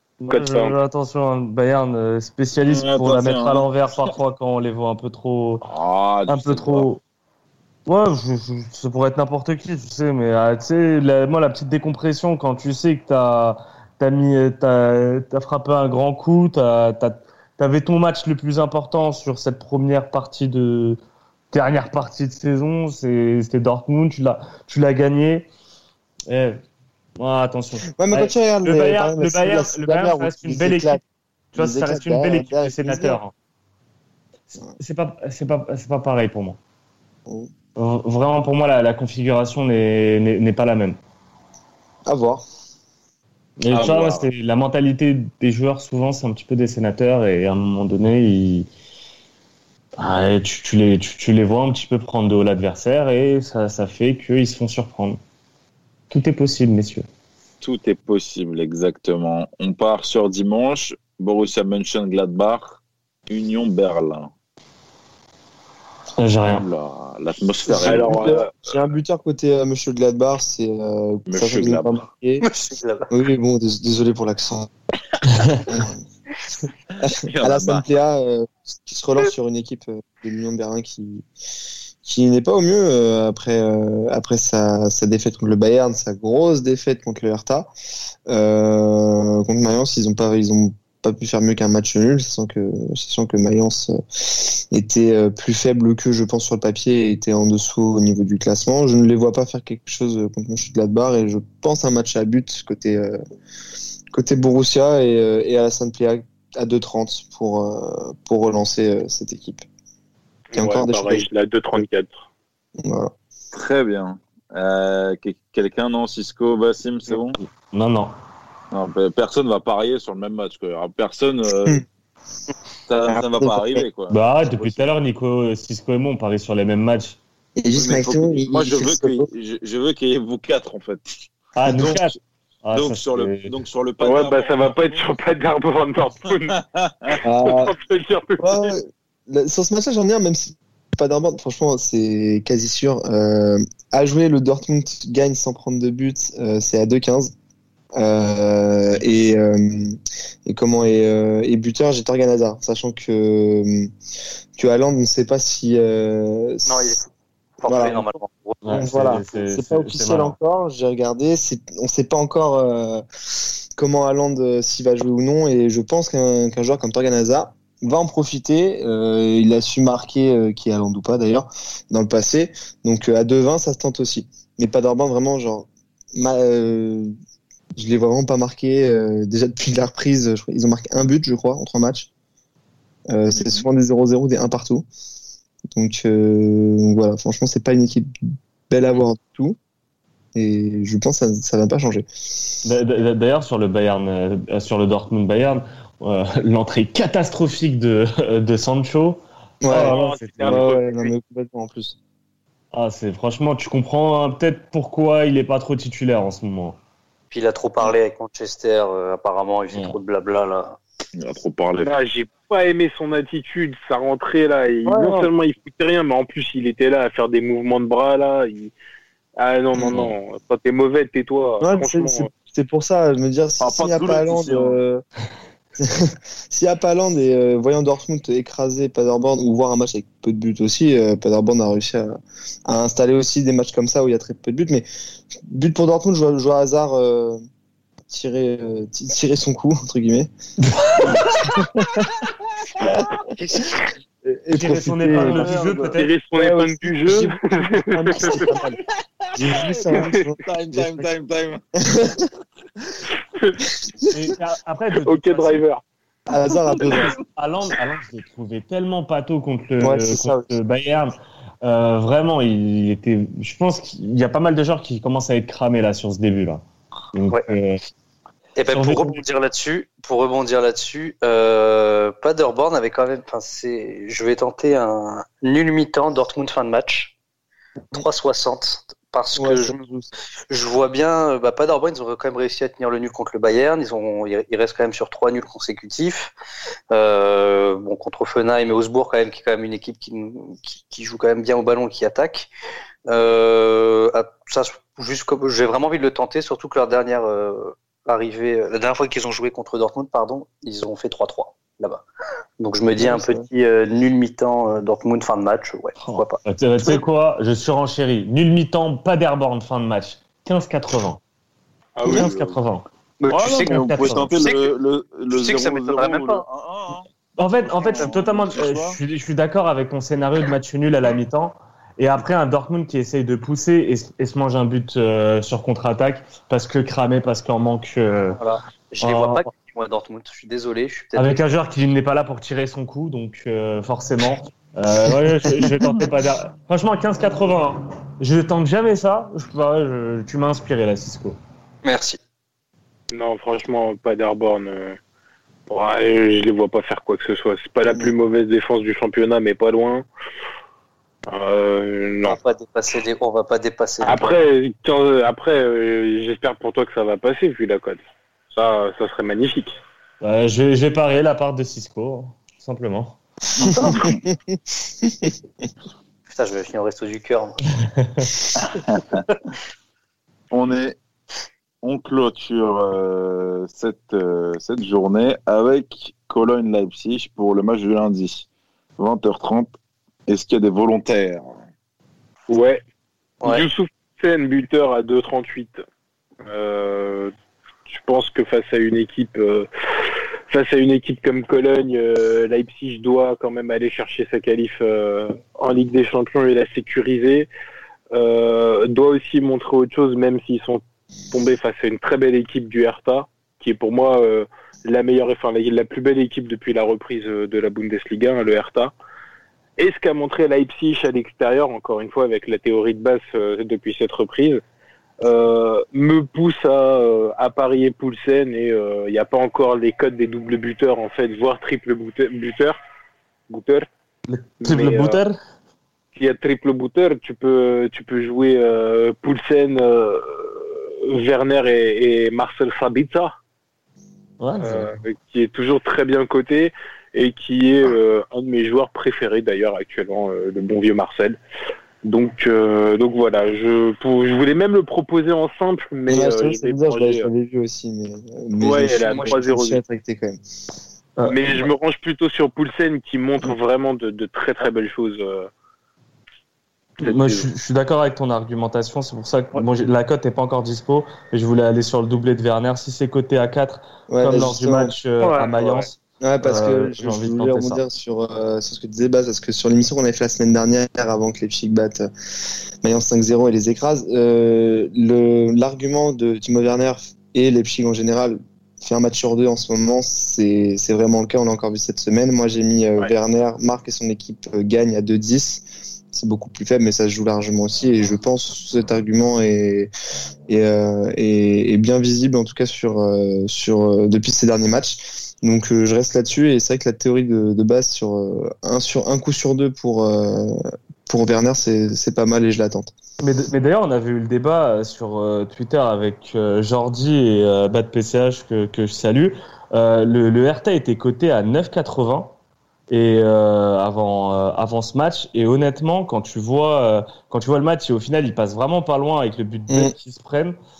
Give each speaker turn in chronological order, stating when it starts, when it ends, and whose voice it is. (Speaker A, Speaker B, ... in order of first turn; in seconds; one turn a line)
Speaker A: 0.2-5.7
Speaker B: 0.3-0.8
Speaker C: 2.6-3.7
Speaker C: 5.6-6.9
Speaker A: 6.3-7.0
Speaker A: 7.8-21.0
Speaker A: 21.5-25.5
Speaker A: 26.3-26.6
Speaker A: 27.2-31.0
Speaker D: 28.0-31.0
Speaker A: 31.5-33.3
Speaker D: 31.6-33.2
Speaker A: 34.5-36.6
Speaker A: 37.8-41.0
Speaker D: 42.0-42.4
Speaker A: 43.6-48.7
Speaker C: 43.7-44.3
Speaker A: 50.0-55.2
Speaker A: 56.1-57.1
Speaker C: 57.6-64.3
Speaker A: 66.2-66.6
Speaker C: 66.5-68.4
Speaker D: 67.7-72.5
Speaker B: 67.7-68.5
Speaker C: 71.3-72.0
Speaker E: 72.4-73.1
Speaker D: 73.1-74.7
Speaker A: 75.3-75.6
Speaker D: 75.7-76.0
Speaker C: 77.0-77.8
Speaker D: 77.0-81.2
Speaker D: 82.0-87.7
Speaker D: 88.3-103.2
Speaker D: 104.1-109.6
Speaker B: 110.5-112.2
Speaker D: 110.5-111.8
Speaker D: 112.8-113.1
Speaker C: 113.5-117.4
Speaker A: 117.5-118.1
Speaker C: 118.7-121.8
Speaker C: 122.9-124.8
Speaker D: 123.0-123.8
Speaker A: 124.1-127.2
Speaker D: 127.6-129.3
Speaker C: 127.7-132.1
Speaker A: 131.5-133.5
Speaker C: 132.7-135.1
Speaker B: 134.0-136.5
Speaker C: 136.5-137.2
Speaker B: 137.1-138.8
Speaker D: 137.2-137.7
Speaker D: 138.4-147.3
Speaker D: 147.9-153.9
Speaker D: 154.6-157.0
Speaker E: 156.7-157.1
Speaker E: 157.6-158.8
Speaker D: 157.7-158.1
Speaker A: 158.6-160.3
Speaker D: 158.7-163.0
Speaker D: 163.8-177.1
Speaker D: 177.8-182.1
Speaker D: 183.1-184.9
Speaker D: 185.7-188.1
Speaker D: 188.7-189.6
Speaker D: 190.3-192.1
Speaker A: 192.6-200.7
Speaker D: 199.6-202.0
Speaker B: 199.7-201.1
Speaker A: 202.7-206.8
Speaker E: 207.3-210.8
Speaker A: 209.7-210.0
Speaker C: 211.2-211.9
Speaker B: 211.8-218.7
Speaker A: 214.8-215.2
Speaker B: 219.4-222.3
Speaker A: 219.9-220.1
Speaker D: 221.6-225.0
Speaker C: 223.6-224.8
Speaker D: 225.8-232.1
Speaker D: 232.7-237.4
Speaker D: 238.1-240.3
Speaker A: 240.8-241.2
Speaker D: 241.4-242.1
Speaker D: 244.2-245.5
Speaker A: 244.5-246.1
Speaker C: 245.1-246.0
Speaker B: 245.9-248.4
Speaker D: 246.3-248.8
Speaker D: 249.3-251.1
Speaker C: 249.4-251.6
Speaker B: 249.9-250.3
Speaker D: 251.8-252.3
Speaker B: 253.3-253.6
Speaker D: 253.8-254.1
Speaker A: 254.1-255.6
Speaker B: 255.0-255.8
Speaker D: 256.3-257.2
Speaker A: 256.9-267.8
Speaker D: 259.8-260.5
Speaker E: 268.6-277.1
Speaker A: 268.7-269.2
Speaker E: 277.9-279.8
Speaker D: 279.4-280.1
Speaker E: 280.5-286.3
Speaker E: 286.9-292.5
Speaker E: 293.1-302.0
Speaker E: 302.6-306.4
Speaker D: 303.0-303.5
Speaker A: 306.0-311.2
Speaker B: 311.9-312.6
Speaker A: 312.0-312.8
Speaker E: 313.2-314.7
Speaker C: 313.3-317.1
Speaker E: 315.3-316.4
Speaker A: 317.4-328.4
Speaker C: 317.9-319.0
Speaker E: 328.4-331.4
Speaker A: 329.0-329.4
Speaker A: 331.1-341.4
Speaker E: 341.8-342.2
Speaker B: 343.1-345.0
Speaker B: 345.7-350.1
Speaker B: 351.3-352.4
Speaker E: 352.2-354.4
Speaker B: 354.0-359.8
Speaker A: 360.2-363.2
Speaker C: 363.6-364.2
Speaker D: 363.6-365.3
Speaker E: 366.3-367.6
Speaker C: 368.6-369.2
Speaker C: 370.5-371.0
Speaker C: 371.8-378.5
Speaker C: 379.0-379.7
Speaker C: 380.3-381.5
Speaker B: 382.5-382.8
Speaker E: 383.4-383.7
Speaker B: 383.4-385.8
Speaker B: 386.4-387.3
Speaker B: 387.9-389.7
Speaker B: 390.5-397.5
Speaker B: 398.1-408.9
Speaker B: 409.8-414.6
Speaker B: 415.2-422.8
Speaker B: 423.5-423.9
Speaker A: 424.3-425.4
Speaker B: 424.6-425.2
Speaker B: 426.1-433.3
Speaker A: 434.4-435.0
Speaker B: 434.6-441.4
Speaker B: 442.0-447.3
Speaker D: 446.1-450.4
Speaker B: 448.6-449.8
Speaker A: 451.2-451.7
Speaker B: 451.2-455.5
Speaker A: 457.0-467.8
Speaker B: 457.0-457.5
Speaker D: 464.1-464.9
Speaker B: 465.2-465.9
Speaker D: 466.2-472.1
Speaker D: 472.8-489.9
Speaker D: 490.5-502.9
Speaker A: 503.2-512.3
Speaker A: 512.9-520.5
Speaker D: 519.7-519.9